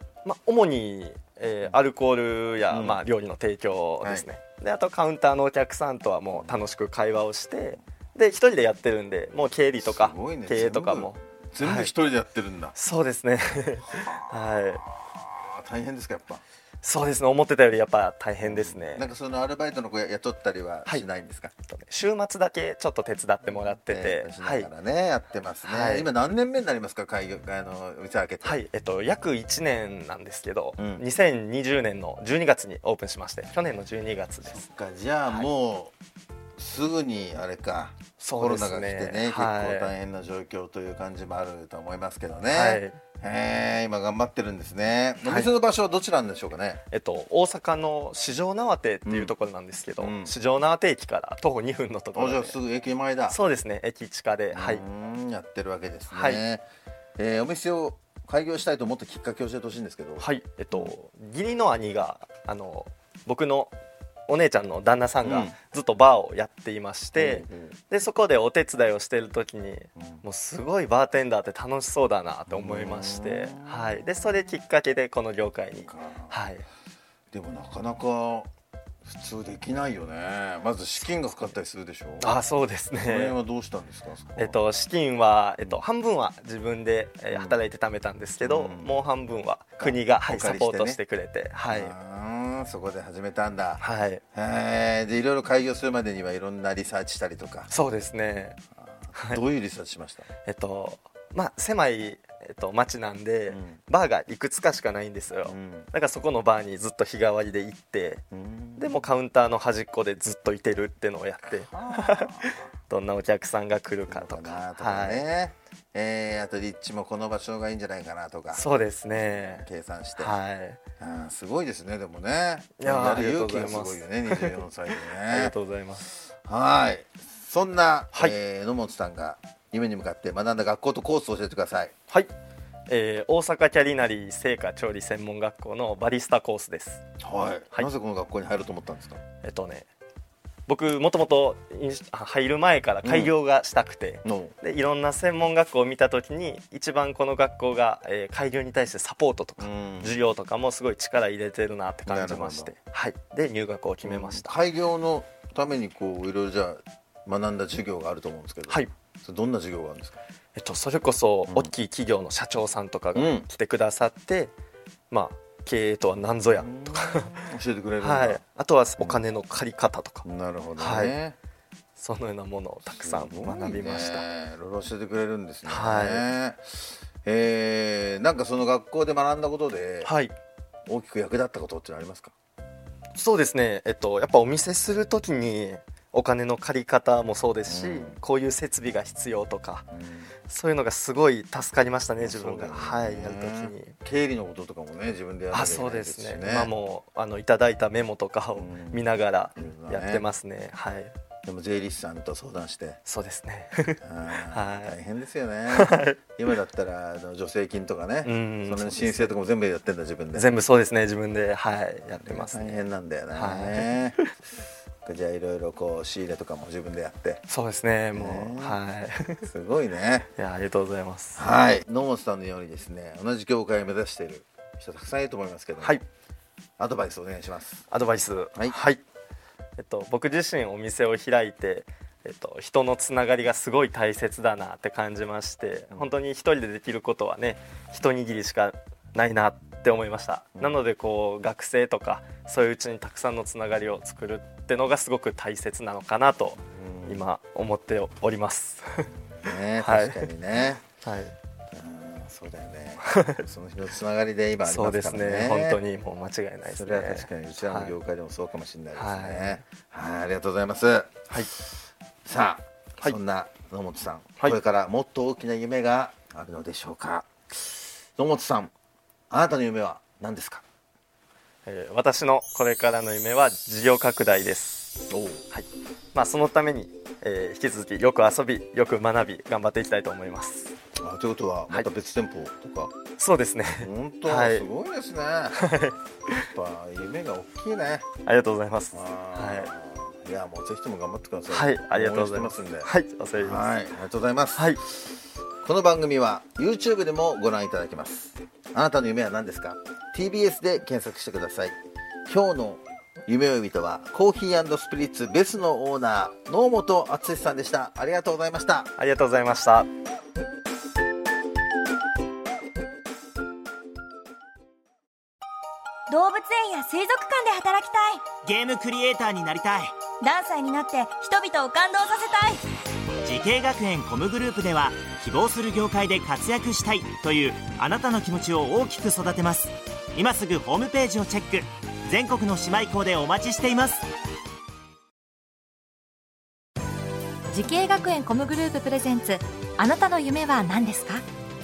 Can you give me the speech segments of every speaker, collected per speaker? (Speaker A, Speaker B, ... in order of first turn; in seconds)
Speaker A: 0.2-11.9, 12.8-14.8, 16.8-19.1, 21.7-24.7, 25.6-26.1, 28.4-34.7, 38.2-39.9, 42.5-43.0, 45.2-45.5, 46.9-52.6, 53.3-54.8, 56.1-56.4, 60.2-63.7, 64.3-76.7, 82.2-83.4, 84.4-91.9, 93.8-94.2, 97.7-98.6, 99.1-99.4, 100.5-108.2, 108.8-115.3, 118.5-119.7, 120.2-120.8, 122.8-126.1, 132.9-137.0, 139.4-139.9, 140.7-154.5, 160.5-164.5, 165.1-167.4, 168.0-170.2, 170.8-171.2, 172.0-174.2, 175.7-176.3, 180.0-180.3, 183.2-189.8, 190.5-193.9, 195.5-201.1, 203.0-205.0, 205.7-206.2, 208.2-209.3, 210.3-214.0, 217.5-219.5, 220.3-221.5, 227.9-229.0, 229.8-249.1, 249.8-250.3, 251.0-251.3, 254.7-258.0, 259.0-259.6, 271.6-280.7, 283.2-284.7, 285.5-286.5, 288.2-289.7, 291.5-293.7, 294.5-294.8, 309.0-309.9
Speaker B: 2.7-3.0, 4.0-4.3, 6.3-6.6, 9.8-12.8, 13.9-16.4, 18.4-21.5, 23.4-28.6, 30.8-31.0, 34.5-35.9, 36.6-46.8, 49.1-49.3, 50.0-50.3, 52.1-53.4, 54.5-56.6, 57.2-60.9, 65.2-65.5, 67.2-67.8, 70.0-70.2, 72.5-74.0, 75.8-76.4, 77.3-78.5, 79.0-82.3, 82.9-84.6, 87.3-87.6, 88.4-89.0, 89.8-91.0, 91.7-97.7, 98.8-100.3, 103.5-103.8, 105.5-105.9, 108.3-109.0, 111.5-112.6, 114.1-120.4, 121.0-125.5, 126.5-131.9, 137.2-139.2, 143.0-143.3, 144.2-144.5, 149.6-150.2, 152.1-152.7, 154.0-160.2, 163.2-163.5, 166.4-168.4, 170.2-171.4, 172.9-180.1, 180.9-182.3, 187.7-188.2, 189.9-190.3, 192.2-196.7, 198.5-200.3, 201.4-203.0, 204.0-210.5, 212.2-214.2, 215.0-217.4, 218.1-218.8, 219.4-220.3, 221.3-226.0, 226.8-227.8, 246.7-247.2, 249.4-250.8, 251.7-255.8, 256.6-261.6, 262.2-268.7, 269.3-270.6, 275.1-275.4, 281.0-282.9, 283.8-285.6, 286.4-288.0, 288.9-294.8, 295.6-308.9
Speaker C: 316.1-318.2, 320.2-322.6
Speaker D: 318.4-319.9, 323.2-334.1
Speaker E: 337.5-341.2